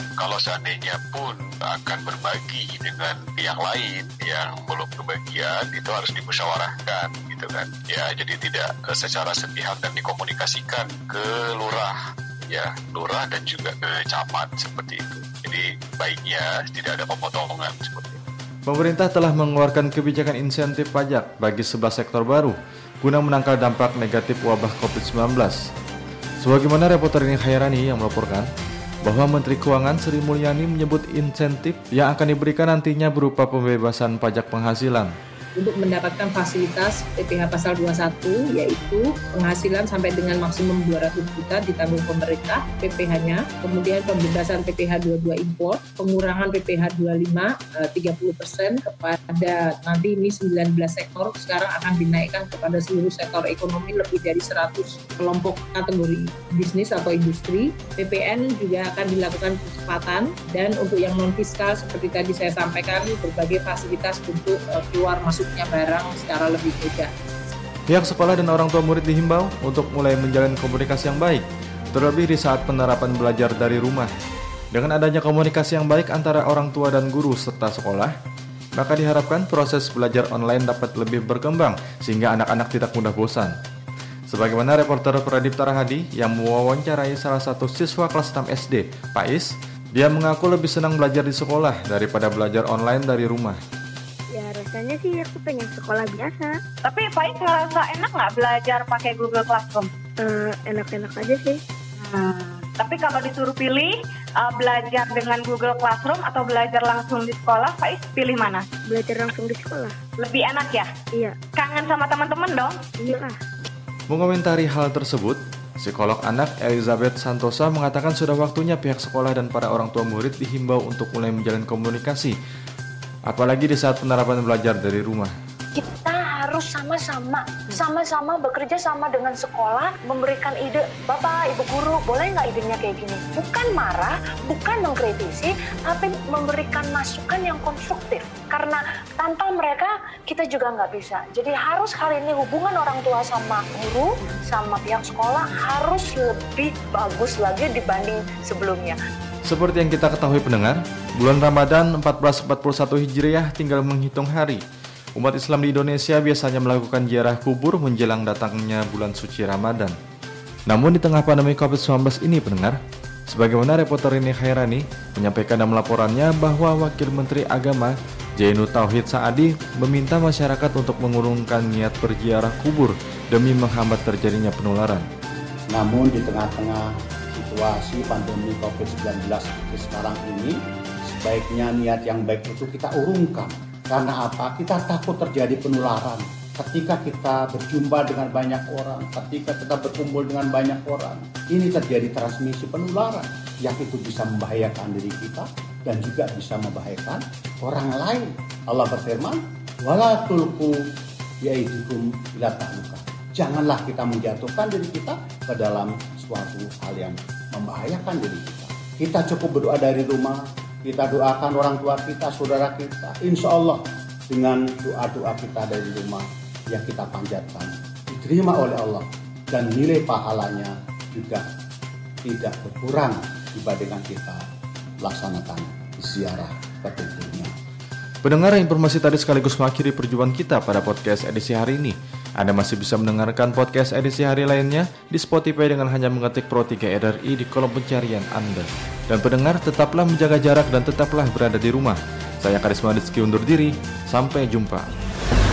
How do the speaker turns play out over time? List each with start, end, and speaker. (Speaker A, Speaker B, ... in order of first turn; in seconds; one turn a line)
Speaker A: 0.2-18.2
Speaker B: 18.7-25.6
Speaker B: 26.4-28.5
Speaker B: 29.1-35.1
Speaker C: 35.6-67.1
Speaker B: 67.9-74.1
Speaker B: 74.7-78.1
Speaker B: 78.8-83.5
Speaker B: 84.3-93.6
Speaker D: 94.3-96.6
Speaker E: 96.8-99.9
Speaker D: 100.2-101.6
Speaker E: 102.0-108.7
Speaker D: 108.8-110.0
Speaker E: 110.2-110.9
Speaker D: 111.1-111.4
Speaker E: 111.6-112.8
Speaker D: 113.0-113.4
Speaker B: 114.1-122.4
Speaker B: 123.3-125.3
Speaker F: 125.8-149.0
Speaker B: 149.4-154.6
Speaker B: 155.2-160.0
Speaker B: 160.7-175.1
Speaker G: 175.7-200.8
Speaker G: 201.4-221.4
Speaker G: 222.2-224.4
Speaker G: 225.0-227.5
Speaker B: 228.2-244.9